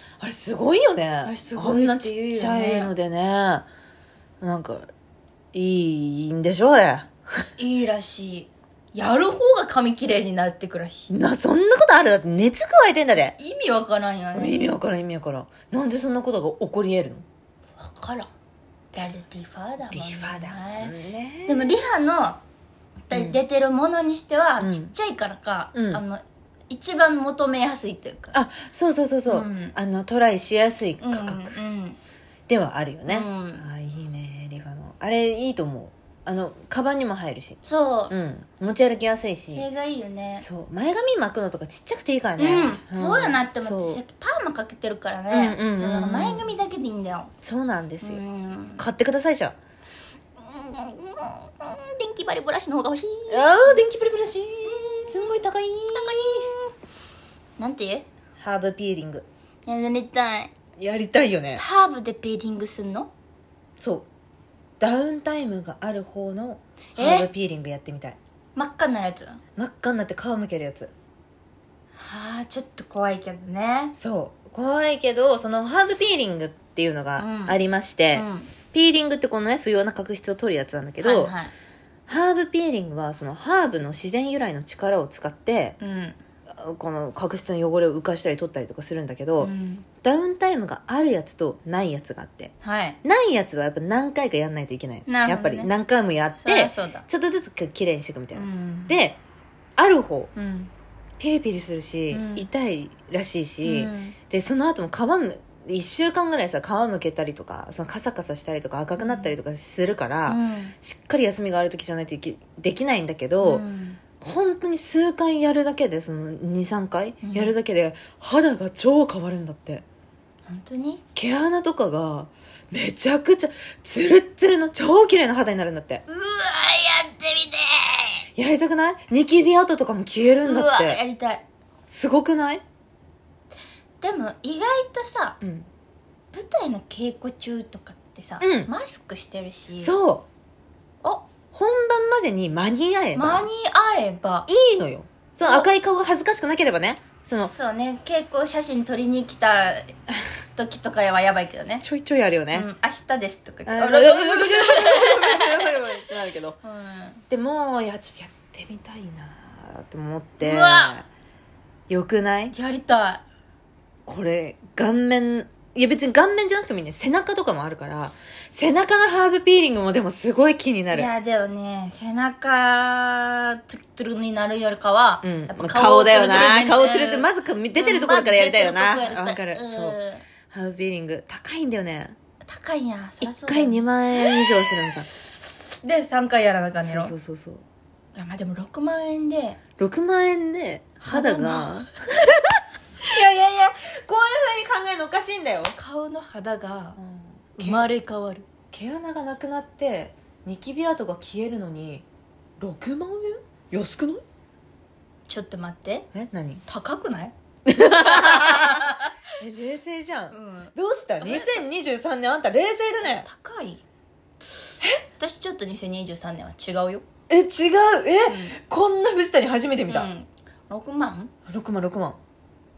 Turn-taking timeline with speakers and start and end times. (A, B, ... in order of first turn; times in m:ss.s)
0:00.2-0:03.7 A
0:01.2-0:02.9 B
0:04.4-0:04.9 A
0:05.5-0:07.2 A
0:07.6-0:11.1 B
0:11.1-0:13.3 A
0:13.4-0:14.6 B
0:14.3-0:17.2 A
0:17.8-0:18.3 B
0:18.9-0:20.9 B
0:19.9-0:21.8 A
0:21.4-0:22.4 B
0:23.1-0:28.3 B
0:23.1-0:23.4 A
0:24.6-0:24.9 A
0:25.7-0:26.0 A
0:28.3-0:31.6 A
0:29.3-0:29.7 B
0:31.0-0:32.0 B
0:32.5-0:37.6 A
0:33.1-0:33.6 B
0:37.6-0:38.1 B
0:38.1-0:39.7 A
0:39.5-0:40.4 B
0:40.4-0:44.0 A
0:42.4-0:47.3 B
0:45.3-0:46.5 A
0:47.4-0:48.2 A
0:48.0-0:48.9 B
0:48.8-0:49.5 A
0:50.4-0:53.8 B
0:53.3-0:56.5 A
0:54.7-0:55.2 B
0:55.9-0:56.7 B
0:57.6-0:58.0 B
0:58.4-0:59.2 A
0:59.6-1:00.5 B
1:00.8-1:01.6 A
1:01.6-1:03.1 B
1:03.8-1:04.1 A
1:04.8-1:08.2 A
1:07.0-1:07.3 B
1:08.5-1:09.4 B
1:09.6-1:10.9 A
1:12.0-1:13.9 B
1:14.0-1:21.3 A
1:17.2-1:17.6 B
1:18.1-1:18.5 B
1:21.0-1:21.5 B
1:22.1-1:25.8 A
1:25.8-1:26.2 B
1:26.5-1:29.5 A
1:29.4-1:29.8 B
1:30.0-1:32.5 A
1:32.6-1:33.0 B
1:33.0-1:39.2 A
1:35.1-1:35.7 B
1:36.4-1:37.0 B
1:38.3-1:39.0 B
1:39.8-1:40.3 A
1:40.4-1:40.7 B
1:41.2-1:53.6 A
1:42.1-1:42.5 B
1:43.6-1:44.2 B
1:49.0-1:49.3 B
1:50.2-1:50.7 B
1:53.4-1:54.0 B
1:54.2-1:59.8 A
1:57.2-1:57.5 B
2:00.5-2:01.0 B
2:01.2-2:06.0 A
2:06.1-2:08.2 B
2:08.3-2:11.0 A
2:10.4-2:11.4 B
2:11.9-2:12.6 A
2:14.0-2:15.4 B
2:15.4-2:15.7 A
2:16.3-2:20.0 B
2:18.4-2:18.7 A
2:19.8-2:20.2 A
2:21.5-2:23.5 A
2:23.1-2:24.5 B
2:24.5-2:27.5 A
2:25.4-2:25.7 B
2:27.3-2:30.0 B
2:30.5-2:31.8 B
2:31.8-2:32.7 A
2:32.5-2:35.8 B
2:33.6-2:36.6 A
2:36.6-2:37.2 B
2:37.3-2:41.1 A
2:40.4-2:41.0 B
2:41.9-2:42.5 A
2:42.5-2:43.2 B
2:44.0-2:51.1 A
2:50.9-3:00.2 B
2:55.2-3:00.0 A
3:00.5-3:02.2 A
3:02.4-3:04.4 B
3:03.2-3:05.0 A
3:05.1-3:07.1 B
3:06.8-3:07.6 A
3:08.1-3:09.6 B
3:09.8-3:12.4 A
3:11.0-3:11.8 B
3:13.1-3:15.7 A
3:15.8-3:17.0 B
3:17.0-3:17.9 A
3:17.6-3:18.5 B
3:18.7-3:22.0 A
3:22.6-3:24.2 A
3:25.3-3:26.1 B
3:26.1-3:26.6 A
3:26.7-3:27.3 B
3:27.6-3:28.9 A
3:28.0-3:29.1 B
3:29.4-3:33.2 A
3:30.3-3:31.6 B
3:33.0-3:33.8 B
3:35.2-3:37.0 B
3:37.3-3:40.1 A
3:38.2-3:38.6 B
3:39.9-3:41.3 B
3:41.5-3:42.2 A